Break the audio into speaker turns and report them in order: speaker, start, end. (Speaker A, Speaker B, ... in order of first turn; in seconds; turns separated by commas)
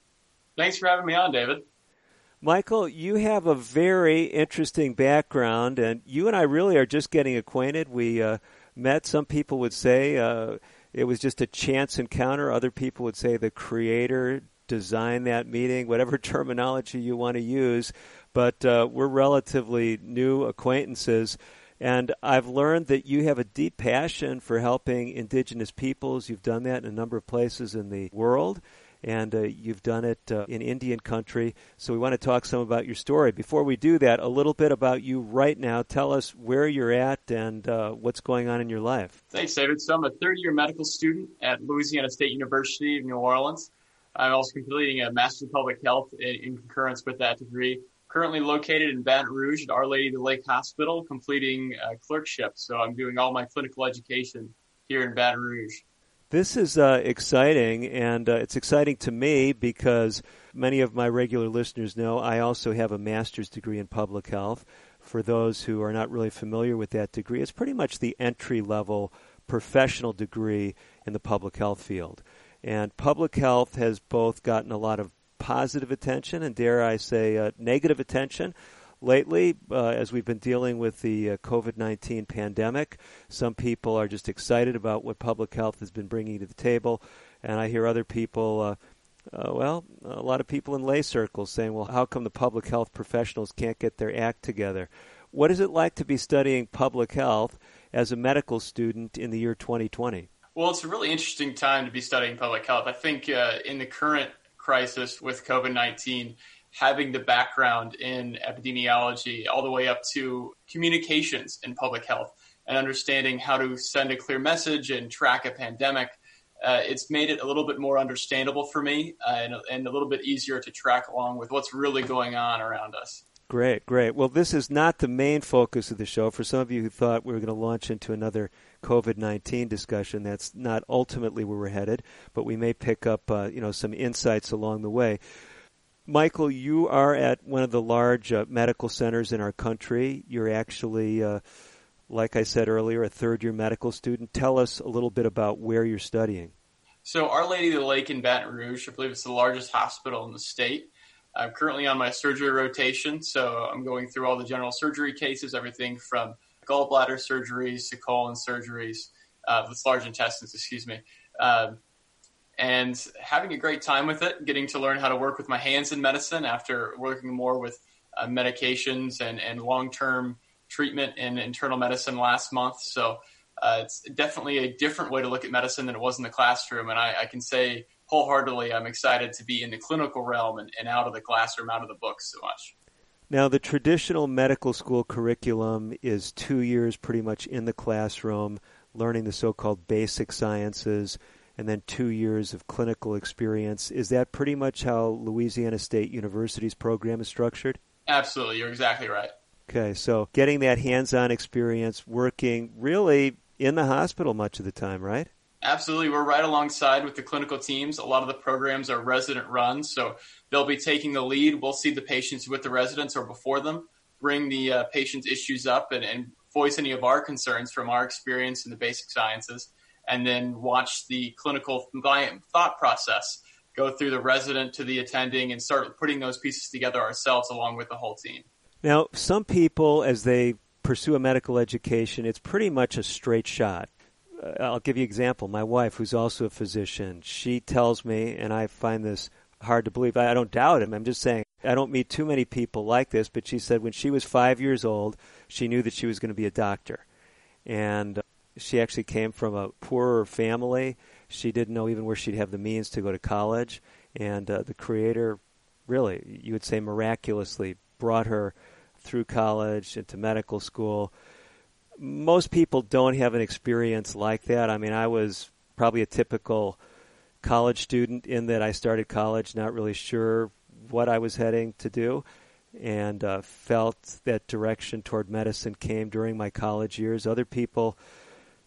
Speaker A: 0.6-1.6, Speaker B: 2.4-39.2, Speaker A: 39.3-55.8, Speaker B: 56.3-88.8, Speaker B: 89.3-100.3, Speaker A: 100.5-123.2, Speaker B: 123.5-135.2, Speaker B: 136.1-141.4, Speaker B: 142.1-146.5, Speaker A: 147.1-161.8, Speaker A: 162.6-182.7, Speaker B: 183.3-197.8, Speaker A: 198.1-199.3, Speaker B: 199.7-205.3, Speaker A: 205.6-228.5, Speaker B: 228.8-247.1, Speaker B: 247.7-261.1, Speaker B: 262.0-266.8, Speaker B: 267.4-278.0